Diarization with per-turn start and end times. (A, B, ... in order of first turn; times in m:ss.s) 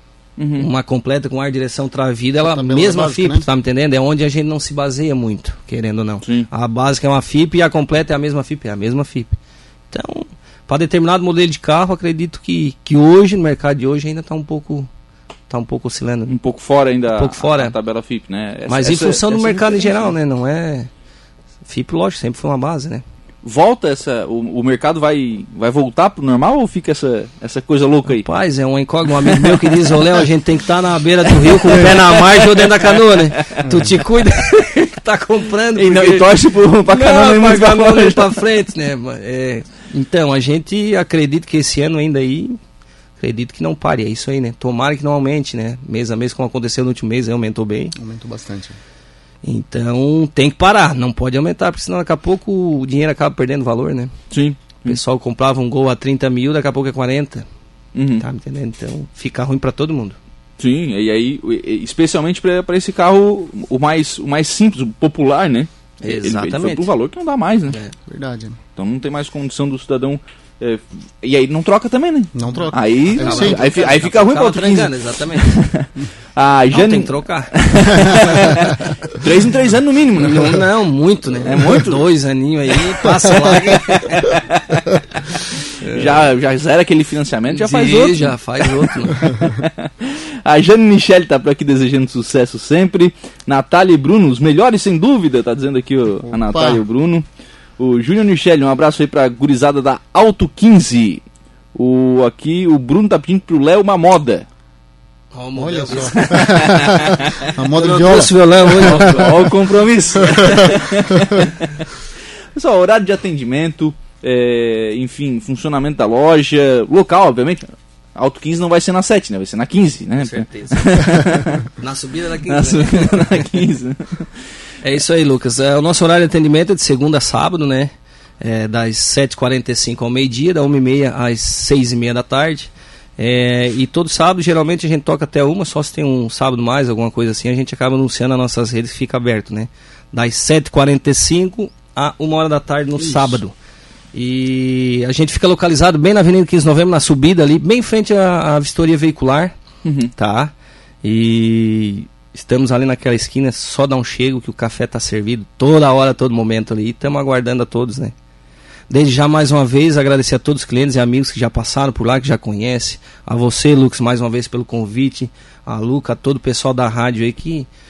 0:00.4-0:00.7 A
0:00.6-0:09.4 B
0:02.4-0:03.4 C
0:06.2-0:06.5 A
0:09.9-0:14.9 B
0:15.5-0:16.4 B
0:16.3-0:20.1 A
0:17.1-0:17.8 B
0:18.7-0:20.9 B
0:21.7-0:23.0 B
0:23.4-0:28.3 A
0:28.1-0:42.6 B
0:29.2-0:30.1 A
0:31.4-0:33.8 A
0:35.8-0:38.4 A
0:43.2-0:47.9 B
0:47.9-0:48.8 C
0:49.4-0:54.1 B
0:54.3-0:55.0 A
0:54.8-0:57.4 B
0:57.9-0:58.2 A
0:58.2-1:00.2 B
1:00.6-1:07.8 A
1:06.0-1:06.9 B
1:08.1-1:08.6 C
1:08.8-1:20.6 A
1:12.3-1:13.8 C
1:13.1-1:15.6 B
1:16.7-1:18.3 B
1:20.1-1:24.4 B
1:21.4-1:22.1 A
1:23.0-1:37.2 A
1:25.8-1:26.2 B
1:27.5-1:29.5 B
1:36.2-1:36.8 C
1:37.8-1:41.2 A
1:41.7-1:44.4 A
1:45.3-1:46.6 B
1:45.5-1:49.2 C
1:46.2-1:47.4 A
1:47.7-1:49.5 B
1:48.8-1:51.9 A
1:50.3-1:50.6 C
1:52.5-2:01.7 A
2:00.2-2:01.2 B
2:01.8-2:03.5 B
2:02.4-2:04.3 A
2:04.8-2:23.5 B
2:23.0-2:23.4 C
2:24.1-2:29.5 B
2:29.8-2:30.1 A
2:30.2-2:30.5 B
2:31.0-2:38.1 B
2:38.9-2:47.7 B